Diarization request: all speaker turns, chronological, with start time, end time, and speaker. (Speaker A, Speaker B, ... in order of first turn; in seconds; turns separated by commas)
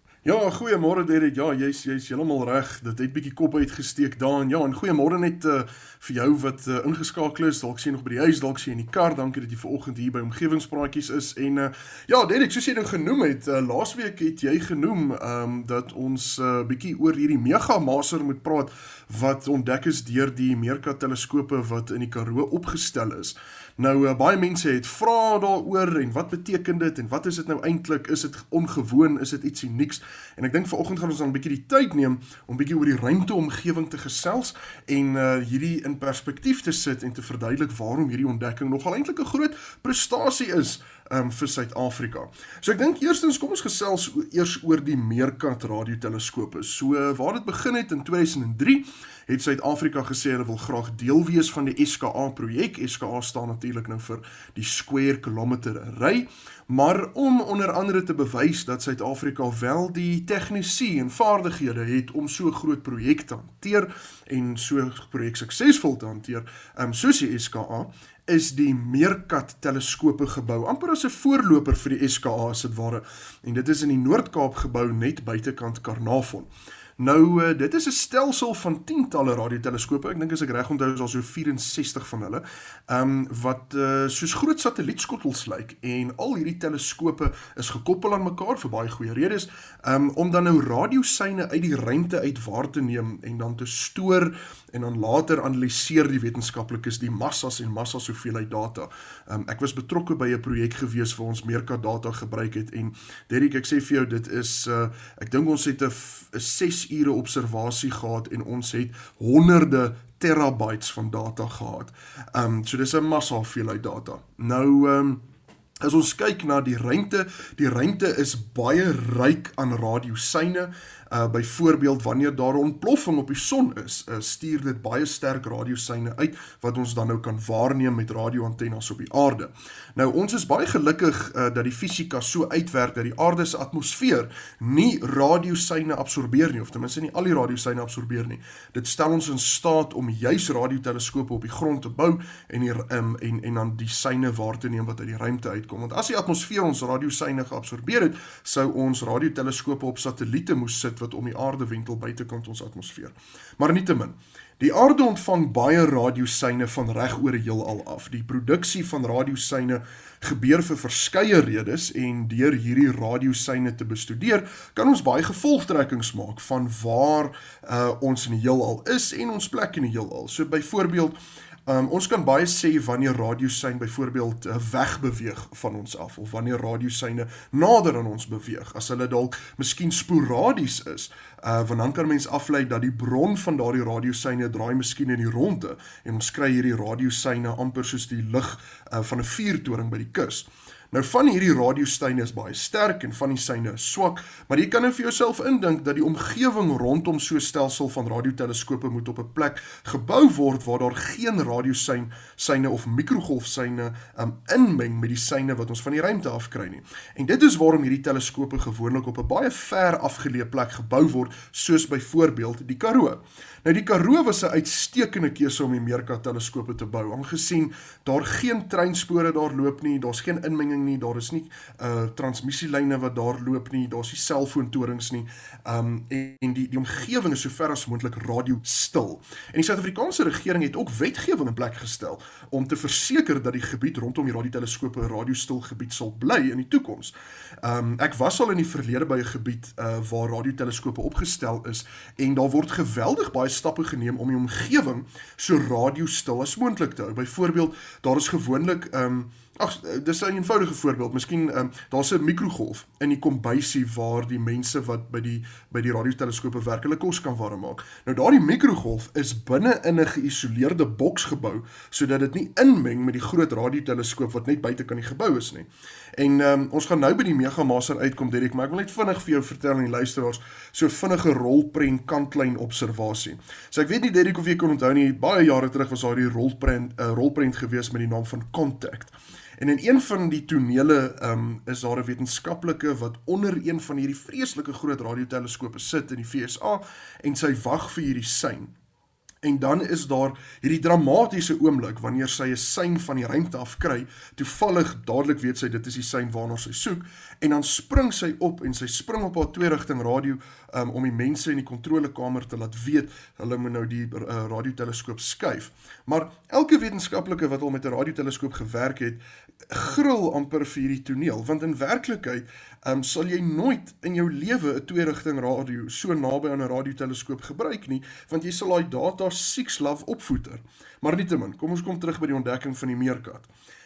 Speaker A: 0.2-115.2, Speaker A: 115.8-288.7, Speaker A: 289.4-323.5